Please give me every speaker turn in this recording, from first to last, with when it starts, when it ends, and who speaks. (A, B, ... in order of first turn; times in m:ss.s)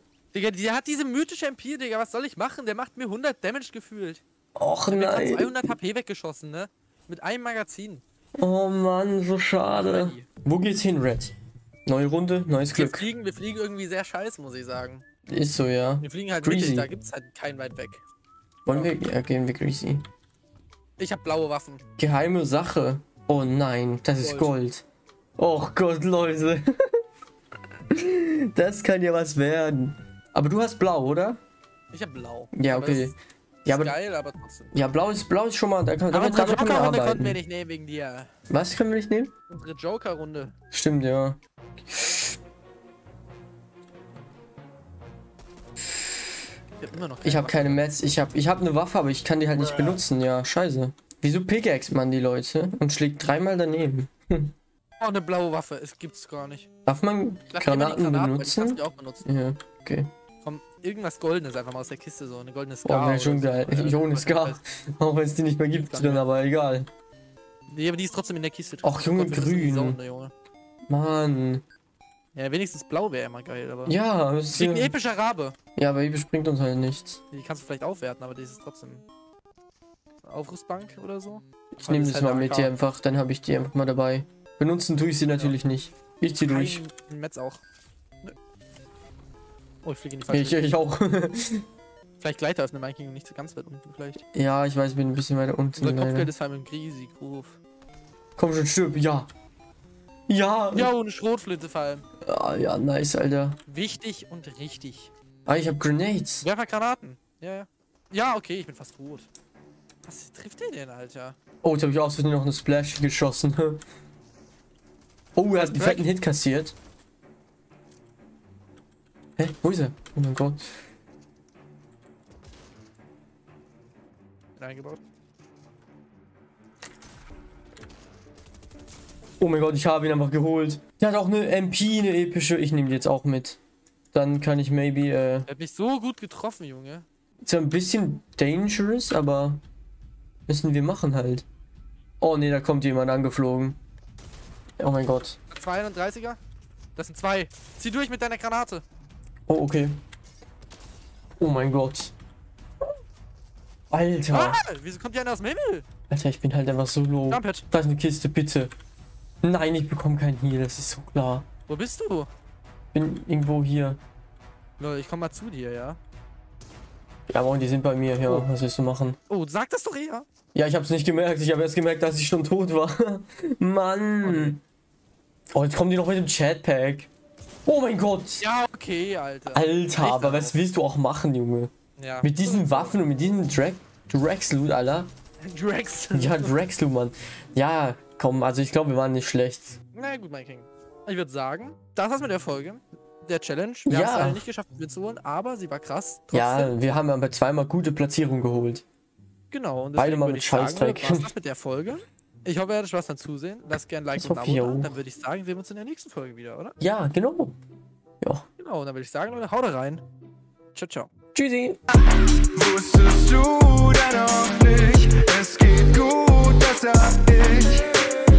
0:00.3-0:04.2 A
0:04.6-0:05.8 B
0:04.9-0:08.0 A
0:08.4-0:11.3 B
0:09.7-0:10.3 A
0:11.8-0:13.1 B
0:12.7-0:15.0 A
0:15.3-0:16.9 B
0:16.0-0:18.0 A
0:18.6-0:20.0 B
0:21.0-0:21.8 A
0:22.0-0:24.8 B
0:24.2-0:24.5 A
0:25.4-0:27.0 B
0:27.9-0:31.4 B
0:31.9-0:33.1 A
0:32.5-0:33.9 B
0:33.6-0:34.7 A
0:34.7-0:37.4 B
0:36.1-0:38.3 A
0:38.5-0:39.3 B
0:39.5-0:40.5 A
0:40.7-0:42.4 B
0:45.8-0:46.2 B
0:46.8-0:47.8 A
0:47.2-0:54.5 B
0:55.0-0:56.7 A
0:56.8-1:00.1 B
0:57.5-0:59.2 A
1:00.4-1:04.6 A
1:02.8-1:06.9 B
1:05.7-1:06.2 A
1:07.7-1:10.3 A
1:08.8-1:10.0 B
1:10.9-1:11.6 B
1:12.3-1:14.0 A
1:13.8-1:14.9 B
1:14.5-1:15.6 A
1:15.8-1:17.2 B
1:17.3-1:19.0 A
1:20.2-1:22.7 A
1:21.8-1:26.8 B
1:26.5-1:27.6 A
1:29.8-1:30.6 A
1:30.3-1:31.6 B
1:32.2-1:34.2 A
1:34.3-1:36.3 B
1:35.8-1:37.6 A
1:38.4-1:39.3 B
1:40.3-1:40.9 B
1:40.7-1:42.0 A
1:42.2-1:43.6 B
1:43.7-1:45.1 A
1:45.5-1:46.5 B
1:46.4-1:49.3 A
1:50.0-1:51.4 A
1:51.6-1:53.8 B
1:55.4-1:56.7 B
1:55.6-1:56.1 A
1:59.4-2:00.6 B
2:04.6-2:05.0 A
2:09.4-2:13.6 B
2:14.1-2:15.5 B
2:15.5-2:17.0 A
2:17.4-2:19.6 B
2:20.5-2:21.4 B
2:22.2-2:23.8 B
2:24.8-2:25.4 B
2:25.5-2:26.4 A
2:27.0-2:28.8 A
2:29.5-2:30.0 B
2:31.4-2:32.1 B
2:33.9-2:34.6 B
2:34.3-2:35.8 A
2:36.1-2:38.7 B
2:37.3-2:37.6 A
2:39.4-2:41.4 B
2:41.7-2:42.3 A
2:42.9-2:44.0 B
2:44.8-2:46.0 A
2:47.3-2:49.2 B
2:48.2-2:48.5 A
2:49.3-2:50.2 A
2:50.5-2:54.6 B
2:54.2-2:54.6 A
2:55.5-2:57.1 B
2:57.6-2:58.4 B
2:58.4-3:00.6 A
2:59.5-3:05.1 B
3:02.0-3:03.0 A
3:05.4-3:06.5 A
3:06.1-3:09.8 B
3:09.9-3:16.7 A
3:13.8-3:14.4 B
3:16.3-3:18.8 B
3:19.5-3:26.8 A
3:20.0-3:21.3 B
3:24.1-3:25.0 B
3:26.8-3:27.6 B
3:28.6-3:30.0 A
3:30.7-3:31.1 A
3:31.3-3:31.8 B
3:32.4-3:38.0 C